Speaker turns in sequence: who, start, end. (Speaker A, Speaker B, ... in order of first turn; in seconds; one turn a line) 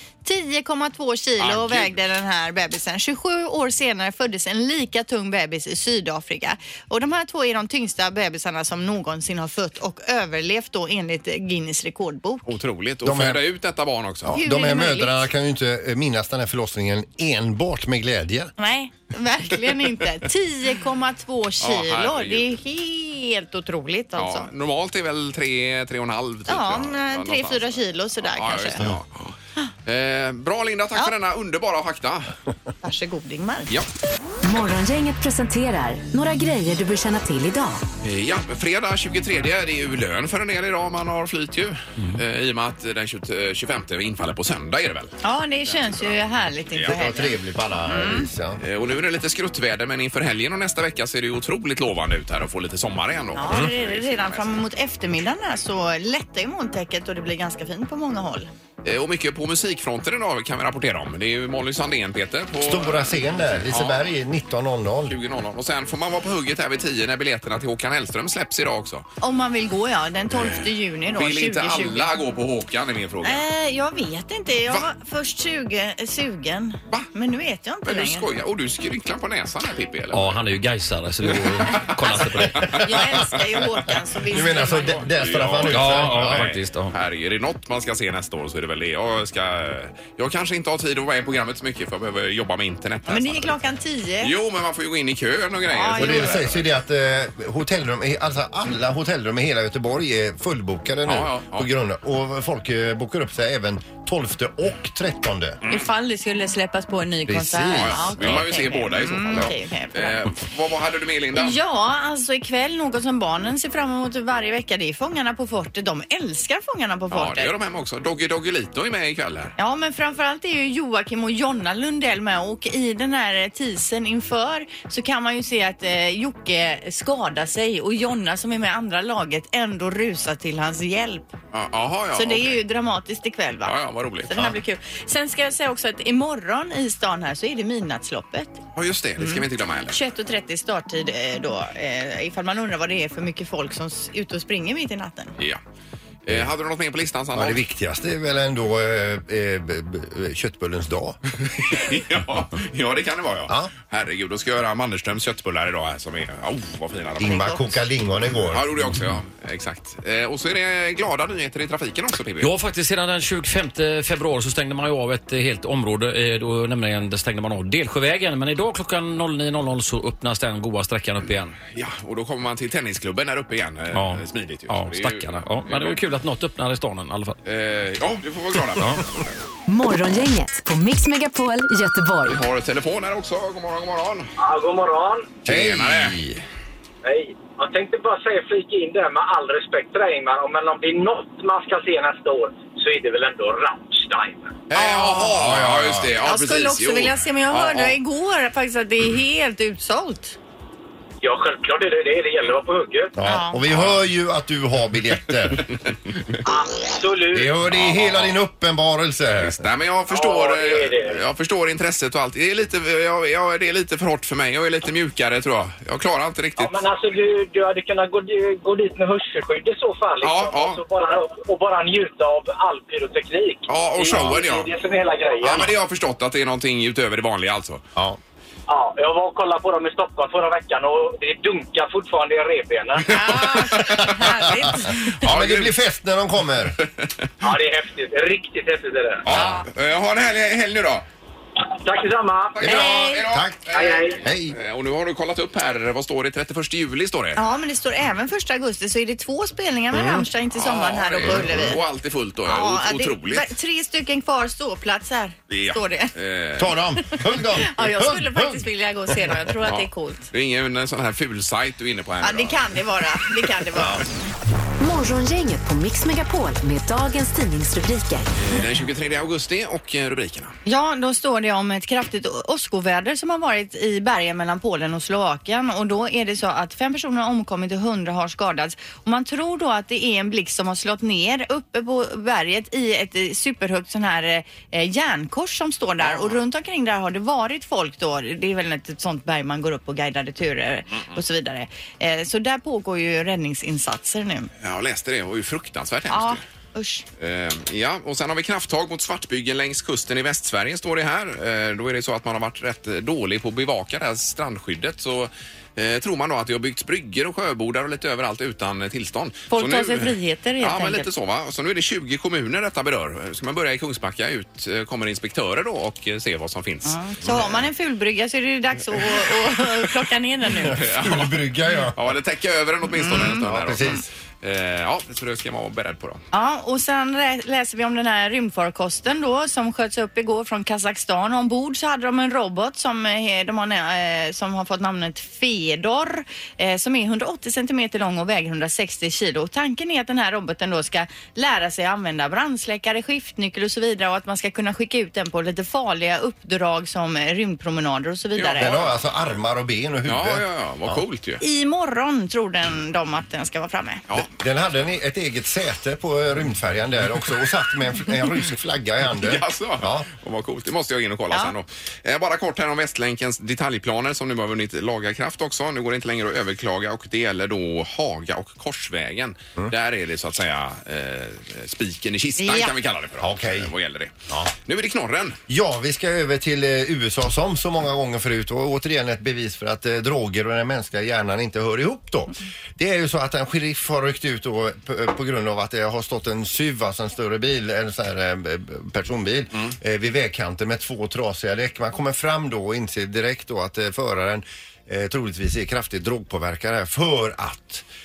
Speaker A: 0.2-12.5
Speaker B: 1.4-2.0
Speaker B: 12.5-14.4
Speaker C: 13.0-13.4
Speaker C: 14.2-18.5
Speaker A: 14.3-15.2
Speaker A: 18.6-24.5
Speaker B: 21.6-22.6
Speaker B: 24.2-29.3
Speaker A: 26.5-28.8
Speaker B: 29.9-32.3
Speaker A: 32.8-33.7
Speaker D: 34.4-37.8
Speaker B: 38.0-45.2
Speaker A: 45.2-48.3
Speaker B: 45.7-46.1
Speaker C: 46.9-48.6
Speaker B: 48.6-54.5
Speaker A: 53.4-58.5
Speaker B: 58.8-64.1
Speaker C: 62.6-65.2
Speaker B: 65.1-69.1
Speaker A: 69.2-72.1
Speaker B: 70.3-73.4
Speaker A: 73.2-78.3
Speaker B: 77.9-80.3
Speaker E: 80.1-82.8
Speaker A: 82.7-85.1
Speaker C: 84.3-86.5
Speaker B: 84.7-93.5
Speaker E: 85.7-86.9
Speaker A: 93.1-94.3
Speaker B: 94.2-96.6
Speaker A: 95.7-96.4
Speaker C: 96.0-105.6
Speaker B: 101.1-101.7
Speaker A: 105.7-110.2
Speaker C: 107.3-108.4
Speaker B: 107.7-111.6
Speaker A: 111.3-117.5
Speaker B: 117.1-119.5
Speaker A: 119.6-131.3
Speaker B: 131.5-132.6
Speaker A: 132.2-138.6
Speaker B: 133.6-134.6
Speaker B: 138.8-140.0
Speaker A: 139.2-145.3
Speaker B: 146.2-147.6
Speaker C: 147.3-151.2
Speaker B: 151.5-157.6
Speaker C: 153.5-153.7
Speaker C: 157.2-158.7
Speaker A: 157.2-157.6
Speaker B: 158.5-162.5
Speaker E: 162.4-171.6
Speaker B: 171.7-176.0
Speaker E: 173.9-177.4
Speaker B: 177.4-179.3
Speaker E: 178.8-179.0
Speaker D: 179.7-182.4
Speaker B: 182.3-184.3
Speaker F: 184.4-185.4
Speaker C: 185.4-186.4
Speaker B: 185.5-186.2
Speaker F: 187.0-194.6
Speaker B: 194.7-198.0
Speaker A: 194.8-195.3
Speaker C: 195.3-196.1
Speaker A: 196.2-200.4
Speaker F: 201.2-203.2
Speaker C: 203.2-205.7
Speaker A: 203.2-203.6
Speaker B: 203.7-204.0
Speaker F: 206.4-207.6
Speaker C: 207.3-209.6
Speaker B: 207.7-208.4
Speaker B: 209.4-216.8
Speaker F: 210.1-211.2
Speaker F: 216.6-225.7
Speaker B: 220.2-220.8
Speaker B: 223.7-224.7
Speaker C: 224.1-224.4
Speaker B: 225.4-227.8
Speaker F: 228.7-233.1
Speaker A: 233.1-235.1
Speaker B: 233.2-234.5
Speaker C: 234.0-236.8
Speaker B: 235.1-235.8
Speaker B: 236.8-237.3
Speaker F: 237.4-239.3
Speaker B: 239.2-241.1
Speaker C: 239.3-239.6
Speaker F: 241.7-242.8
Speaker B: 242.6-247.4
Speaker A: 242.6-243.2
Speaker C: 242.6-244.6
Speaker F: 243.7-244.2
Speaker A: 247.4-251.8
Speaker C: 249.9-250.3
Speaker B: 250.6-253.5
Speaker C: 251.2-251.8
Speaker A: 252.5-256.1
Speaker B: 255.5-256.8
Speaker C: 256.6-258.6
Speaker A: 257.6-260.3
Speaker B: 259.6-262.8
Speaker A: 262.2-264.1
Speaker C: 263.8-264.1
Speaker D: 264.8-268.3
Speaker B: 268.4-270.6
Speaker A: 270.7-294.5
Speaker B: 286.0-286.4
Speaker B: 294.6-296.4
Speaker A: 296.1-297.1
Speaker B: 297.2-317.0
Speaker A: 309.5-311.1
Speaker A: 316.9-320.8
Speaker C: 317.2-317.6
Speaker C: 320.6-322.1
Speaker B: 320.8-321.4
Speaker B: 321.9-326.2
Speaker A: 322.9-324.0
Speaker C: 323.4-324.1
Speaker A: 326.3-348.8
Speaker B: 348.4-349.1
Speaker C: 348.6-351.0
Speaker B: 350.1-351.4
Speaker A: 351.4-354.0
Speaker C: 354.2-360.1
Speaker B: 359.2-375.4
Speaker A: 372.4-372.7
Speaker C: 373.2-373.7
Speaker C: 375.5-397.9